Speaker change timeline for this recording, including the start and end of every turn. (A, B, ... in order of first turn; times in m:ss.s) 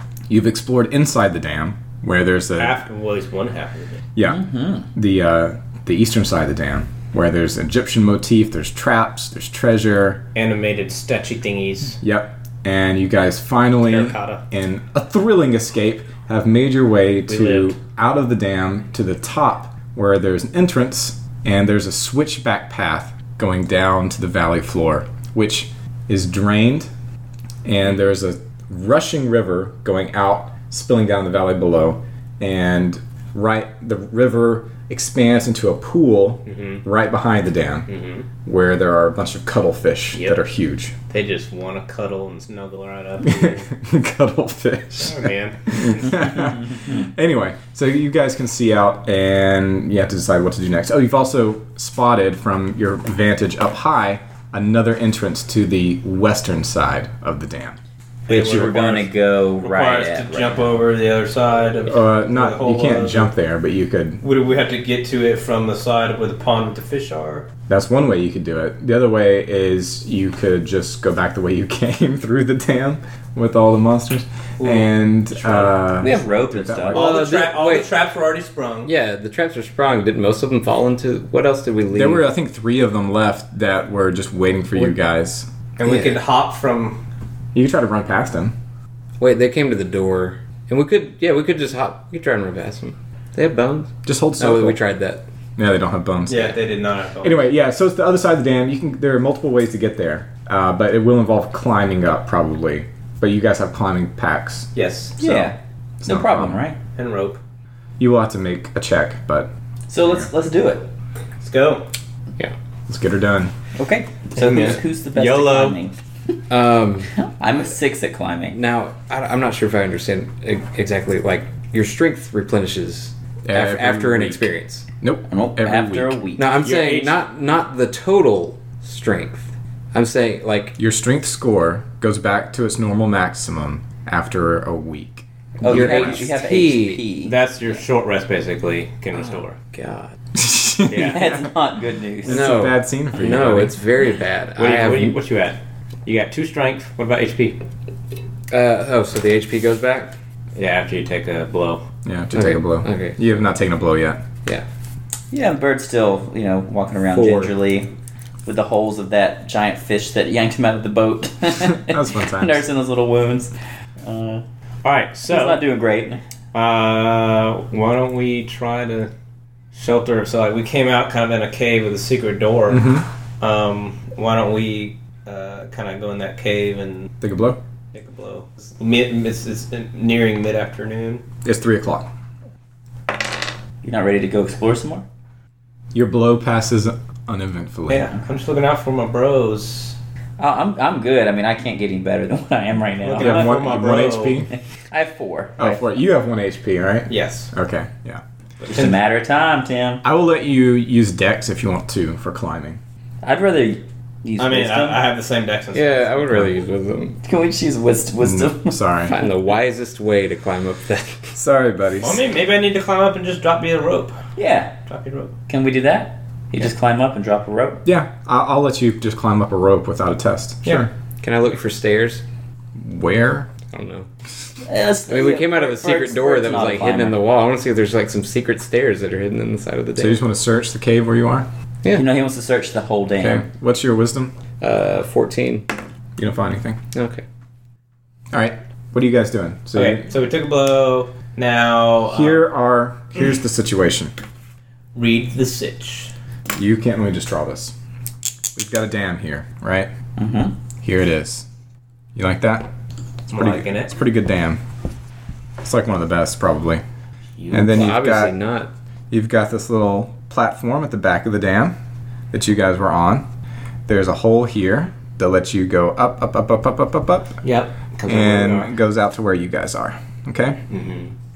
0:00.3-0:02.8 A
0:02.6-0:04.0 B
0:04.2-0:10.2 A
0:04.2-0:04.9 C
0:10.4-0:12.0 B
0:12.0-0:26.9 A
0:13.8-0:14.4 B
0:17.3-0:17.8 B
0:27.6-0:37.9 A
0:36.5-0:36.8 B
0:37.9-0:38.3 B
0:38.4-0:40.9 A
0:40.1-0:40.4 B
0:41.1-0:43.7 B
0:43.2-0:57.8 A
0:45.0-0:46.3 B
0:58.3-1:03.3 B
0:58.3-1:00.8 C
1:01.9-1:04.2 A
1:04.2-1:07.5 B
1:07.7-1:17.0 A
1:14.6-1:14.9 B
1:15.4-1:17.2 C
1:16.9-1:17.9 D
1:16.9-1:18.9 B
1:18.8-1:22.3 D
1:21.9-1:25.5 A
1:25.8-1:27.0 B
1:25.8-1:26.2 D
1:27.5-1:28.6 A
1:29.2-1:35.2 D
1:34.0-1:34.8 A
1:35.6-1:36.6 A
1:36.3-1:37.4 B
1:37.2-1:46.6 A
1:44.8-1:45.2 B
1:45.2-1:46.8 C
1:47.0-1:47.4 B
1:48.0-1:49.5 A
1:49.9-1:50.9 C
1:50.0-1:50.3 A
1:51.4-1:51.9 B
1:52.9-1:53.5 A
1:53.8-1:55.9 C
1:54.4-1:55.8 B
1:56.5-1:57.1 D
1:57.1-1:58.6 C
1:58.5-2:04.8 D
2:03.4-2:04.5 A
2:05.0-2:06.2 A
2:05.3-2:06.6 C
2:06.4-2:10.8 D
2:06.6-2:07.2 B
2:10.8-2:16.1 A
2:15.6-2:17.4 C
2:15.6-2:17.0 D
2:17.2-2:19.6 B
2:19.7-2:20.1 D
2:20.3-2:21.5 A
2:20.9-2:21.3 B
2:21.0-2:22.5 C
2:22.2-2:23.8 A
2:22.3-2:25.2 D
2:24.6-2:27.6 B
2:28.5-2:30.2 D
2:30.6-2:31.8 B
2:32.0-2:34.2 A
2:32.4-2:33.2 D
2:35.3-2:37.9 C
2:37.1-2:37.5 D
2:38.4-2:44.4 C
2:41.6-2:42.6 A
2:44.8-2:45.6 B
2:45.3-2:46.2 C
2:46.5-2:49.1 B
2:49.7-2:52.9 B
2:52.7-2:53.1 A
2:53.4-2:57.1 B
2:57.2-2:57.6 A
2:57.9-3:01.2 B
3:01.4-3:02.1 A
3:03.8-3:05.1 C
3:05.9-3:08.1 A
3:07.9-3:10.0 B
3:10.4-3:13.6 C
3:13.0-3:14.5 B
3:13.2-3:14.5 A
3:14.9-3:15.8 C
3:15.6-3:18.2 A
3:17.1-3:17.5 B
3:18.6-3:19.0 B
3:18.7-3:20.0 C
3:20.0-3:22.8 A
3:23.2-3:25.1 C
3:24.4-3:26.2 B
3:25.7-3:27.2 D
3:27.2-3:28.8 C
3:28.2-3:29.2 A
3:29.1-3:31.4 D
3:31.3-3:32.2 A
3:32.0-3:34.2 B
3:34.4-3:34.7 C
3:34.9-3:35.3 B
3:35.5-3:37.8 C
3:37.8-3:40.9 A
3:41.2-3:42.2 D
3:42.8-3:43.5 A
3:43.7-3:44.1 D
3:44.6-3:47.2 C
3:45.1-3:50.2 D
3:50.0-3:51.5 A
3:51.9-3:53.4 C
3:53.2-3:54.3 A
3:54.6-3:55.7 D
3:56.2-3:56.8 A
3:56.9-3:57.2 D
3:58.3-4:00.1 A
3:59.7-4:02.4 B
4:02.1-4:04.1 A
4:05.0-4:06.1 B
4:06.5-4:07.7 A
4:08.6-4:09.9 A
4:10.2-4:10.6 C
4:10.8-4:11.5 A
4:12.2-4:12.7 A
4:13.3-4:13.9 B
4:13.3-4:14.6 A
4:15.6-4:16.8 A
4:17.4-4:18.7 D
4:17.5-4:18.4 A
4:19.1-4:21.8 A
4:22.3-4:23.3 A
4:23.9-4:27.4 A
4:27.4-4:28.7 B
4:28.1-4:30.6 A
4:30.7-4:31.1 B